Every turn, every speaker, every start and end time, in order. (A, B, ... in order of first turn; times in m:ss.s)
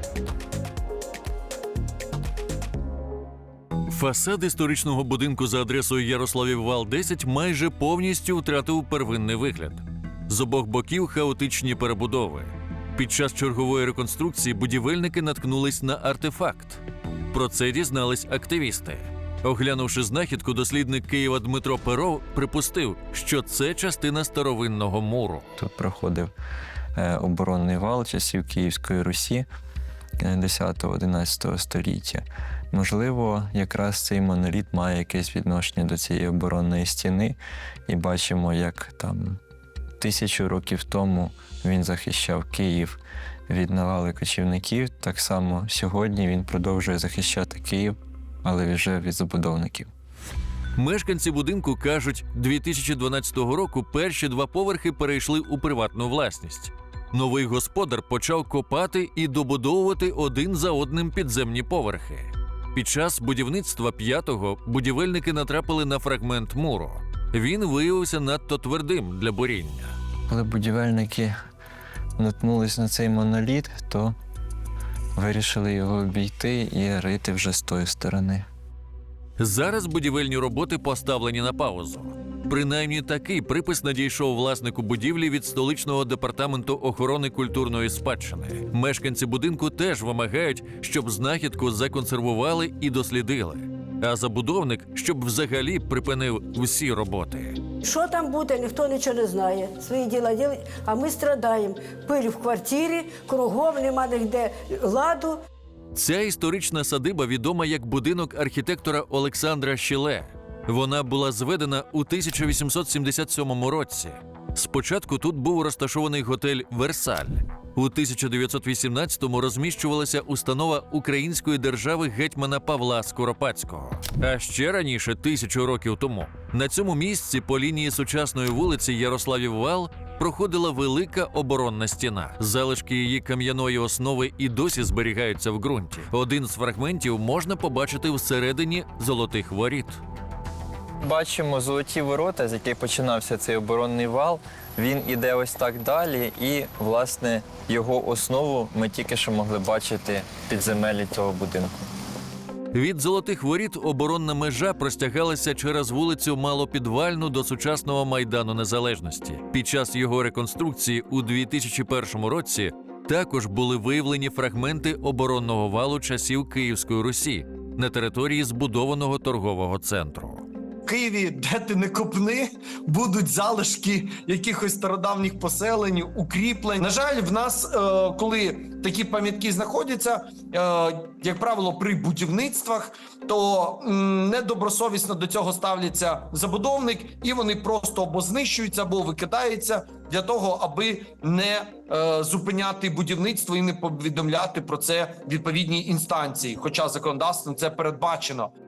0:03.9-0:25.4 A
0:25.6-0:26.3 B
0:26.9-0:29.4 B
0:30.2-0:39.4 B
0:40.0-0:49.9 B
0:50.8-1:09.9 A
1:10.3-1:11.3 B
1:12.2-1:14.1 B
1:15.2-1:18.4 B
1:19.4-1:37.6 A
1:37.8-1:45.4 C
1:45.9-2:20.0 A
2:21.0-2:31.7 B
2:32.7-2:50.4 A
2:50.8-3:18.5 D